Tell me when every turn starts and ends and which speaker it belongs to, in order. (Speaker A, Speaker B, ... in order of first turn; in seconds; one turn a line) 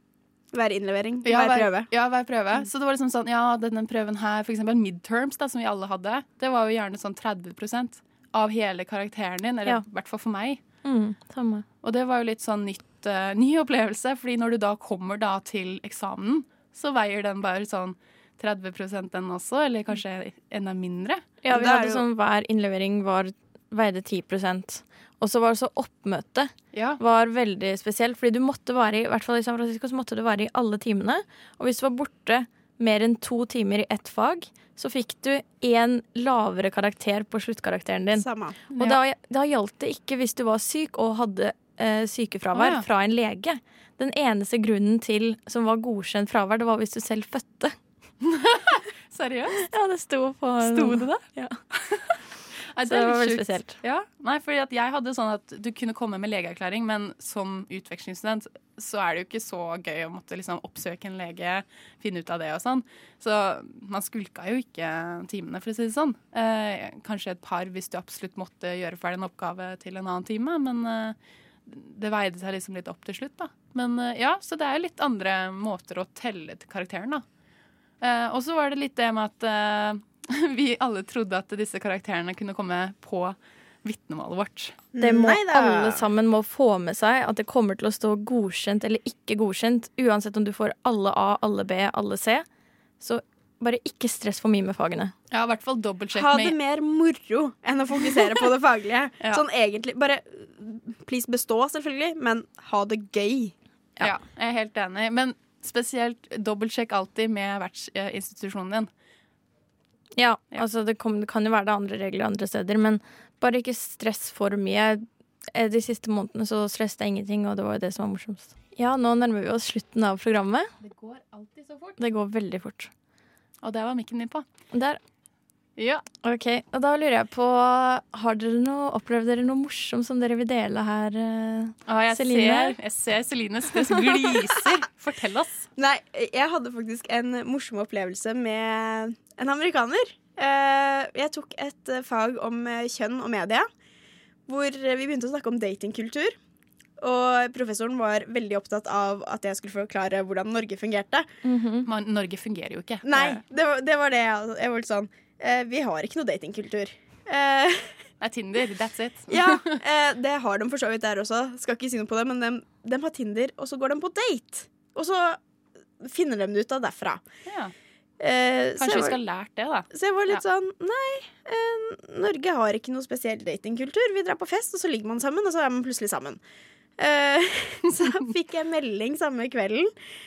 Speaker A: 0.5-1.9
Speaker B: 1.2-10.6
Speaker C: 10.8-11.6
Speaker B: 11.8-21.2
Speaker C: 21.4-47.7
Speaker A: 21.5-21.8
Speaker B: 26.7-27.0
Speaker A: 38.1-38.6
Speaker B: 38.7-39.0
Speaker B: 42.5-42.8
Speaker B: 48.2-49.6
Speaker C: 49.6-51.5
Speaker B: 50.6-51.2
Speaker B: 52.7-77.2
Speaker C: 52.8-53.8
Speaker B: 78.0-84.8
Speaker A: 85.0-86.0
Speaker C: 85.0-92.4
Speaker C: 93.0-95.1
Speaker B: 95.3-96.5
Speaker A: 96.2-103.5
Speaker B: 104.0-108.9
Speaker C: 110.1-115.0
Speaker C: 115.5-120.7
Speaker B: 120.8-122.0
Speaker C: 122.0-122.9
Speaker B: 123.6-124.4
Speaker C: 124.7-125.0
Speaker B: 125.8-126.0
Speaker C: 126.2-132.8
Speaker B: 131.9-135.7
Speaker A: 135.8-143.6
Speaker A: 144.5-146.3
Speaker A: 147.0-151.2
Speaker C: 151.4-151.9
Speaker B: 151.9-153.4
Speaker A: 153.0-157.9
Speaker B: 158.2-159.8
Speaker A: 159.3-165.4
Speaker A: 166.0-167.2
Speaker B: 167.4-167.7
Speaker A: 168.2-169.2
Speaker B: 168.8-170.4
Speaker A: 169.9-176.4
Speaker A: 177.0-179.9